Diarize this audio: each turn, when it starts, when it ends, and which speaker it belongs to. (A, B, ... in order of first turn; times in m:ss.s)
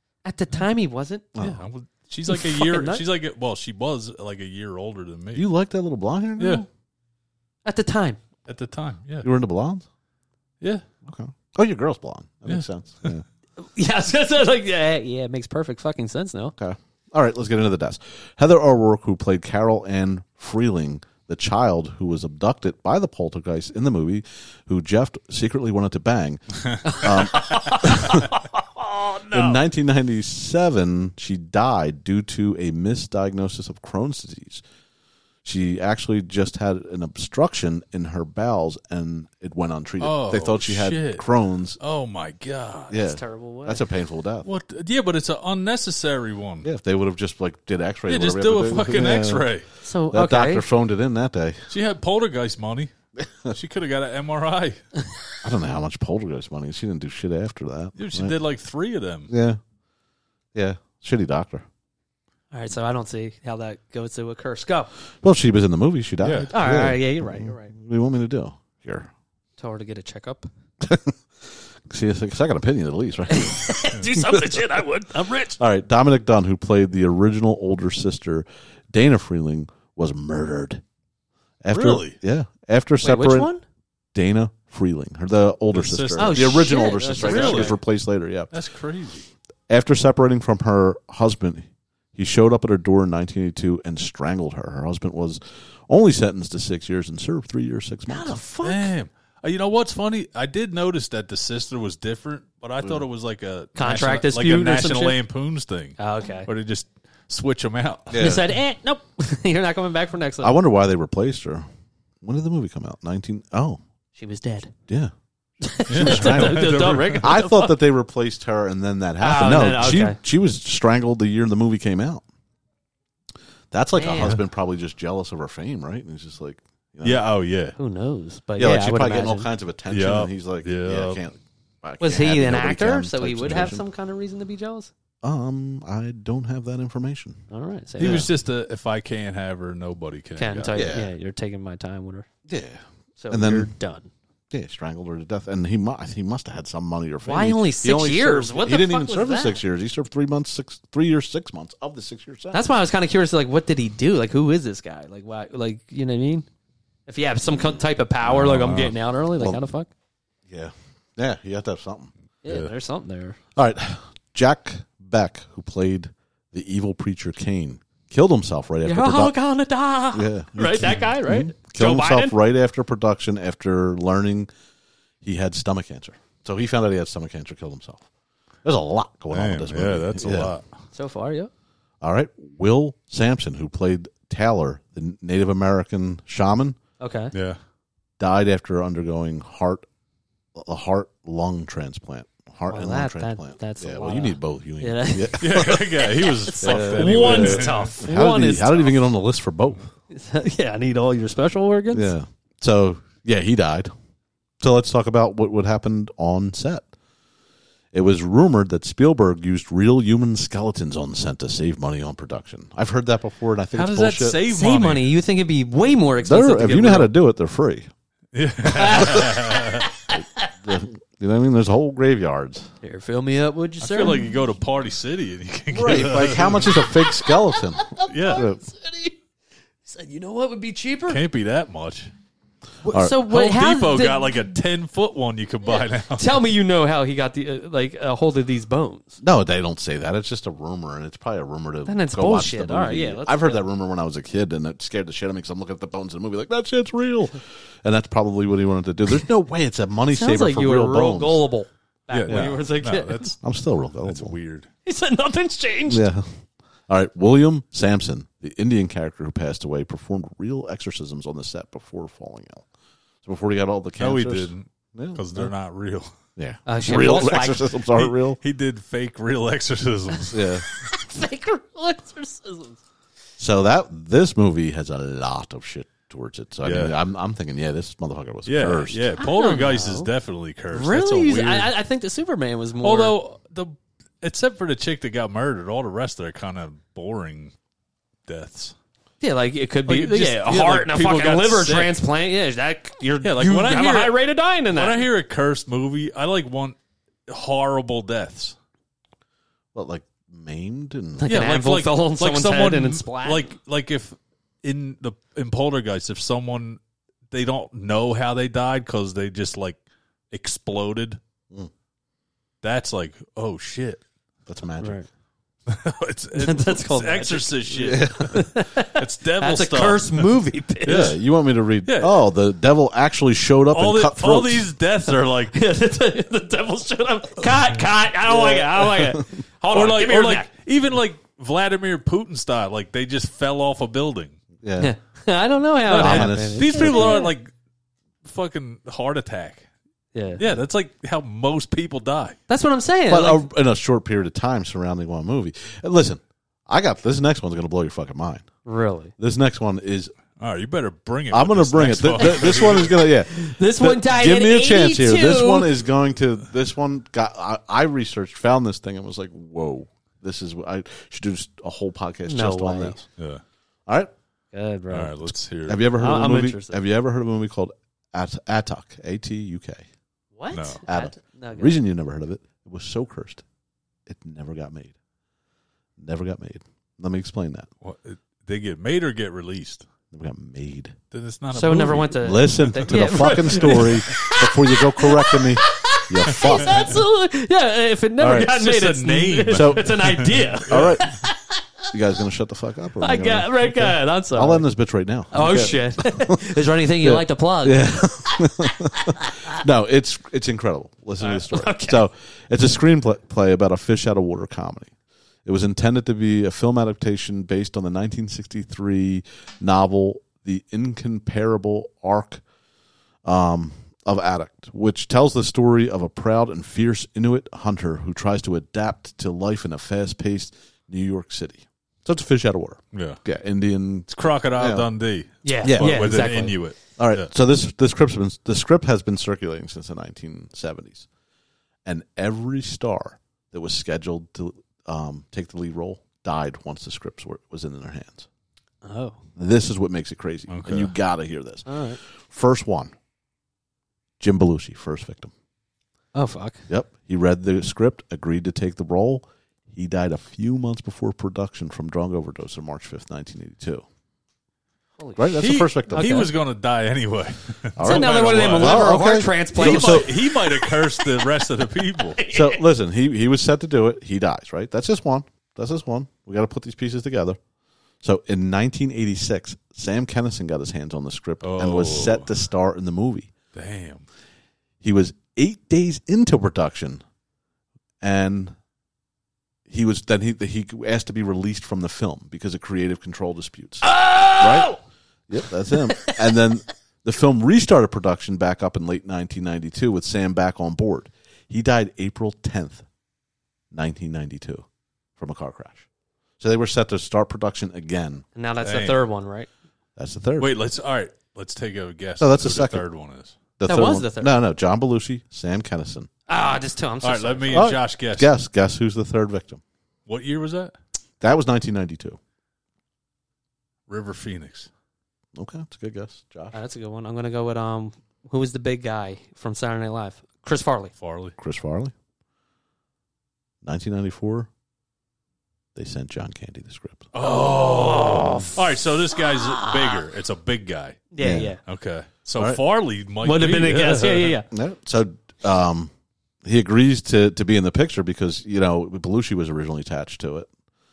0:00.2-0:01.3 A
0:01.3-0:01.6 B
0:01.4-0:05.4 C
0:02.3-0:03.0 A
0:05.3-0:06.7 B
0:06.4-0:06.6 C
0:07.6-0:08.2 A
0:08.4-0:09.3 C
0:09.2-0:09.8 B
0:11.0-0:13.2 B
0:12.4-0:13.1 C
0:13.6-0:16.5 A
0:16.6-0:28.3 B
0:26.8-0:29.6 A
0:29.3-0:34.6 B
0:35.4-0:41.8 B
0:40.0-0:41.2 C
0:41.8-0:43.0 C
0:42.9-0:44.5 B
0:42.9-0:43.8 A
0:44.4-0:46.7 C
0:46.6-0:49.5 B
0:48.1-0:49.6 C
0:49.8-0:50.6 A
0:50.1-0:51.7 B
0:51.7-0:52.9 C
0:53.2-0:53.5 B
0:53.5-0:54.8 C
0:55.4-0:58.3 B
0:58.0-0:59.3 C
0:59.3-0:59.6 B
1:00.5-1:01.6 B
1:02.5-1:04.9 A
1:05.2-1:09.1 B
1:06.2-1:06.5 C
1:06.5-1:07.7 A
1:09.6-1:10.5 A
1:10.8-1:14.6 B
1:13.3-1:15.6 A
1:15.6-1:20.8 B
1:21.6-1:23.5 B
1:21.7-1:22.2 C
1:23.0-1:23.6 A
1:24.1-1:28.5 B
1:25.7-1:27.8 C
1:26.2-1:27.8 A
1:28.5-1:29.2 C
1:29.7-1:38.4 B
1:38.1-1:38.9 A
1:38.6-1:48.2 C
1:43.8-1:45.2 A
1:46.0-1:46.5 A
1:48.1-1:48.4 B
1:48.2-1:50.5 A
1:50.4-1:51.6 B
1:52.2-1:53.8 B
1:54.1-1:54.7 A
1:55.6-1:57.7 A
1:55.9-1:57.3 C
1:55.9-2:02.2 B
1:59.2-2:00.2 A
2:03.7-2:07.2 B
2:03.9-2:04.4 A
2:07.0-2:07.8 C
2:07.8-2:09.5 A
2:08.6-2:13.8 B
2:09.9-2:11.2 C
2:12.0-2:14.9 A
2:15.2-2:17.4 B
2:17.5-2:18.3 A
2:18.0-2:20.8 C
2:18.0-2:18.3 B
2:20.4-2:22.3 A
2:20.7-2:21.1 B
2:22.5-2:23.7 B
2:23.2-2:24.1 A
2:24.5-2:32.6 B
2:27.2-2:29.6 A
2:32.5-2:36.4 A
2:37.1-2:39.9 A
2:38.3-2:38.9 C
2:38.4-2:38.8 B
2:40.5-2:42.1 B
2:42.4-2:43.4 A
2:42.4-2:42.7 C
2:43.5-2:49.3 B
2:48.8-2:52.4 A
2:50.1-2:54.5 B
2:55.2-2:58.0 B
2:58.6-3:00.5 B
2:59.3-3:00.7 C
3:00.9-3:01.5 A
3:02.0-3:06.8 B
3:07.0-3:07.3 A
3:07.3-3:07.6 C
3:08.2-3:09.8 B
3:10.5-3:15.9 B
3:12.7-3:19.0 A
3:15.4-3:17.9 C
3:16.6-3:19.8 B
3:20.1-3:22.1 A
3:21.9-3:23.9 B
3:24.6-3:26.9 B
3:27.9-3:34.4 B
3:33.7-3:35.1 C
3:34.5-3:37.1 A
3:36.2-3:37.9 B
3:38.3-3:39.9 C
3:38.6-3:40.5 A
3:38.8-3:39.3 B
3:40.1-3:42.7 B
3:42.8-3:44.3 A
3:43.8-3:46.8 C
3:45.7-3:48.6 B
3:46.9-3:49.2 A
3:48.1-3:48.4 C
3:49.8-3:51.2 A
3:51.1-3:52.1 C
3:52.8-3:54.4 A
3:52.9-3:53.2 B
3:53.2-3:56.3 C
3:56.1-3:59.2 A
3:59.2-4:11.4 B
4:01.8-4:03.6 A
4:10.1-4:13.3 A
4:12.1-4:13.4 C
4:12.3-4:12.6 B
4:13.4-4:14.3 B
4:14.0-4:14.7 C
4:14.8-4:16.1 A
4:15.9-4:16.3 B
4:16.9-4:22.6 B
4:23.2-4:25.5 B
4:24.0-4:26.1 C
4:26.4-4:28.4 B
4:26.6-4:27.7 A
4:27.9-4:30.6 C
4:30.3-4:30.6 B
4:30.7-4:32.8 A
4:33.4-4:39.1 B
4:36.6-4:37.0 C
4:38.4-4:41.7 C
4:39.2-4:40.1 A
4:40.7-4:43.1 A
4:42.8-4:47.5 C
4:48.3-4:48.7 C
4:49.2-4:55.0 A
4:49.8-4:51.9 C
4:53.2-4:56.8 C
4:57.3-4:58.5 C
4:59.7-5:01.3 B
5:01.2-5:03.5 A
5:01.2-5:06.8 C
5:07.3-5:09.8 C
5:10.3-5:11.2 C
5:12.6-5:14.0 C
5:14.5-5:15.0 B
5:14.8-5:15.1 A
5:15.7-5:20.3 C
5:16.4-5:17.7 A
5:17.8-5:18.4 B
5:18.2-5:21.2 A
5:20.8-5:21.2 C
5:20.9-5:24.6 B
5:21.8-5:22.2 C
5:23.7-5:25.6 C
5:25.5-5:30.5 A
5:28.3-5:29.1 C
5:29.7-5:34.4 C
5:34.6-5:34.9 B
5:34.8-5:37.3 A
5:35.9-5:37.5 C
5:36.0-5:37.3 B
5:38.2-5:39.7 C
5:40.1-5:40.6 A
5:40.4-5:42.4 C
5:42.5-5:43.4 A
5:43.1-5:48.5 B
5:48.6-5:49.1 A
5:49.2-5:50.1 B
5:50.4-5:53.0 C
5:51.3-6:03.0 B
5:52.2-5:55.8 A
6:02.3-6:03.0 A
6:03.2-6:03.4 C
6:04.5-6:05.3 A
6:04.9-6:05.8 C
6:05.7-6:09.8 B
6:06.0-6:06.8 A
6:10.4-6:11.8 A
6:10.5-6:10.8 C
6:10.9-6:13.4 B
6:14.1-6:14.9 B
6:16.0-6:17.7 B
6:17.8-6:19.8 C
6:20.1-6:21.0 B
6:21.1-6:24.2 C
6:21.5-6:31.6 A
6:22.1-6:27.0 B
6:26.3-6:27.0 C
6:28.2-6:28.5 B
6:28.3-6:31.1 C
6:29.5-6:29.9 B
6:30.7-6:31.1 B
6:31.9-6:44.9 B
6:33.0-6:34.6 A
6:35.3-6:39.6 A
6:41.2-6:42.0 A
6:45.4-6:52.4 B
6:53.2-7:04.9 B
7:02.9-7:03.2 C
7:04.1-7:07.3 C
7:05.4-7:06.6 A
7:05.6-7:11.1 B
7:11.8-7:18.3 B
7:18.8-7:19.2 A
7:19.4-7:22.9 B
7:20.5-7:20.9 C
7:21.6-7:22.0 A
7:24.2-7:25.3 B
7:26.1-7:26.6 A
7:26.7-7:33.8 B
7:35.0-7:36.3 A
7:35.2-7:36.3 B
7:35.4-7:38.9 C
7:37.8-7:40.2 B
7:37.8-7:41.2 A
7:39.5-7:42.2 C
7:42.0-7:42.6 A
7:42.3-7:47.4 B
7:48.0-7:53.3 B
7:51.4-7:52.3 C
7:53.5-7:54.0 C
7:54.8-7:57.0 B
7:58.0-7:58.5 B
7:59.7-8:04.7 B
8:03.8-8:04.8 A
8:05.3-8:12.8 B
8:05.7-8:06.2 A
8:13.7-8:14.6 B
8:15.2-8:15.8 B
8:16.4-8:18.2 B
8:18.3-8:19.5 A
8:18.6-8:19.0 C
8:20.0-8:20.5 B
8:20.4-8:23.3 C
8:22.2-8:22.8 B
8:23.6-8:26.1 B
8:23.6-8:24.3 A
8:26.3-8:27.6 A
8:27.0-8:28.3 C
8:27.5-8:29.6 B
8:30.1-8:30.7 C
8:31.2-8:32.2 B
8:33.9-8:34.7 C
8:35.3-8:36.5 B
8:36.5-8:40.9 A
8:41.0-8:41.3 C
8:41.4-8:41.9 B
8:43.6-8:44.5 B
8:45.7-8:47.1 B
8:47.1-8:54.4 C
8:47.2-8:48.6 A
8:49.1-8:50.0 A
8:51.1-8:51.6 A
8:51.2-8:51.5 B
8:53.2-8:54.5 A
8:54.5-8:55.9 B
8:56.4-9:00.5 B